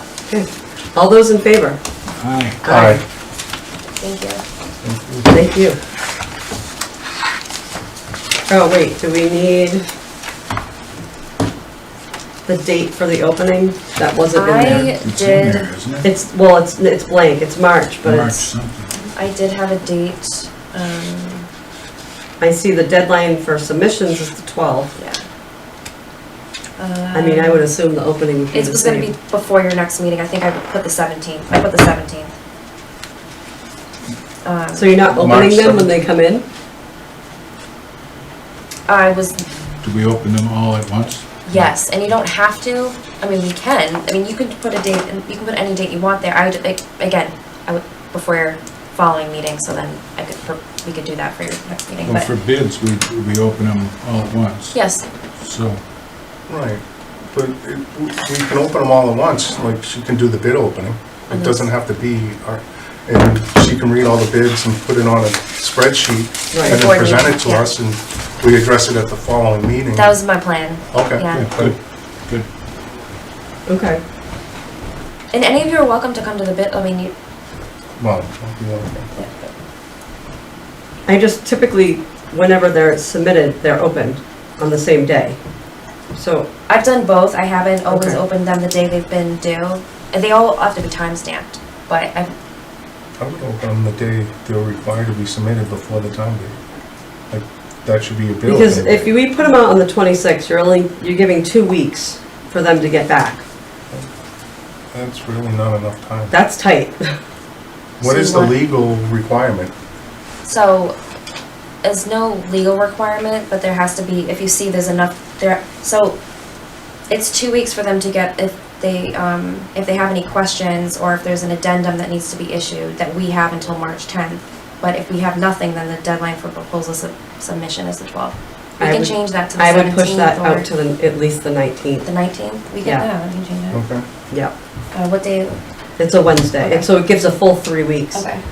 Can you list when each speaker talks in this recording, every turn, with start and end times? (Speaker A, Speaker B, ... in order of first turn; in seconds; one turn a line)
Speaker A: 0.3-1.8
Speaker B: 2.2-2.6
Speaker A: 2.6-3.0
Speaker C: 2.6-3.0
Speaker D: 4.0-4.4
Speaker C: 4.8-5.3
Speaker A: 5.3-5.8
Speaker A: 8.5-9.8
Speaker A: 12.4-14.9
Speaker D: 14.3-15.7
Speaker B: 14.6-16.1
Speaker A: 16.0-18.5
Speaker B: 18.0-18.9
Speaker D: 19.1-21.5
Speaker A: 22.4-24.9
Speaker D: 25.0-25.2
Speaker D: 26.8-27.7
Speaker A: 27.1-29.1
Speaker D: 28.5-32.4
Speaker D: 34.4-35.0
Speaker A: 34.8-36.5
Speaker C: 35.1-35.9
Speaker D: 38.9-39.4
Speaker B: 39.8-41.6
Speaker D: 41.5-52.3
Speaker B: 52.0-54.8
Speaker D: 54.7-55.0
Speaker B: 55.4-55.8
Speaker C: 56.5-70.2
Speaker D: 61.3-61.7
Speaker A: 66.5-66.8
Speaker D: 66.6-67.7
Speaker D: 70.0-71.5
Speaker C: 70.9-71.8
Speaker B: 71.3-71.8
Speaker A: 73.7-74.0
Speaker D: 75.3-77.1
Speaker C: 78.0-79.1
Speaker D: 79.2-79.5
Speaker A: 81.1-85.4
Speaker A: 86.1-86.5
Speaker D: 86.7-92.3
Speaker A: 87.9-88.2
Speaker C: 93.2-96.6
Speaker C: 97.3-99.2
Speaker A: 98.5-103.4
Speaker C: 104.9-106.3
Speaker A: 106.3-107.2
Speaker D: 108.0-108.6
Speaker C: 108.0-109.7
Speaker D: 110.4-111.0
Speaker D: 111.8-116.2
Speaker D: 117.1-130.7
Speaker A: 128.8-132.1
Speaker D: 132.0-133.8
Speaker C: 133.7-134.1
Speaker D: 134.9-135.6
Speaker A: 136.0-138.3
Speaker D: 136.6-136.9
Speaker D: 138.1-138.4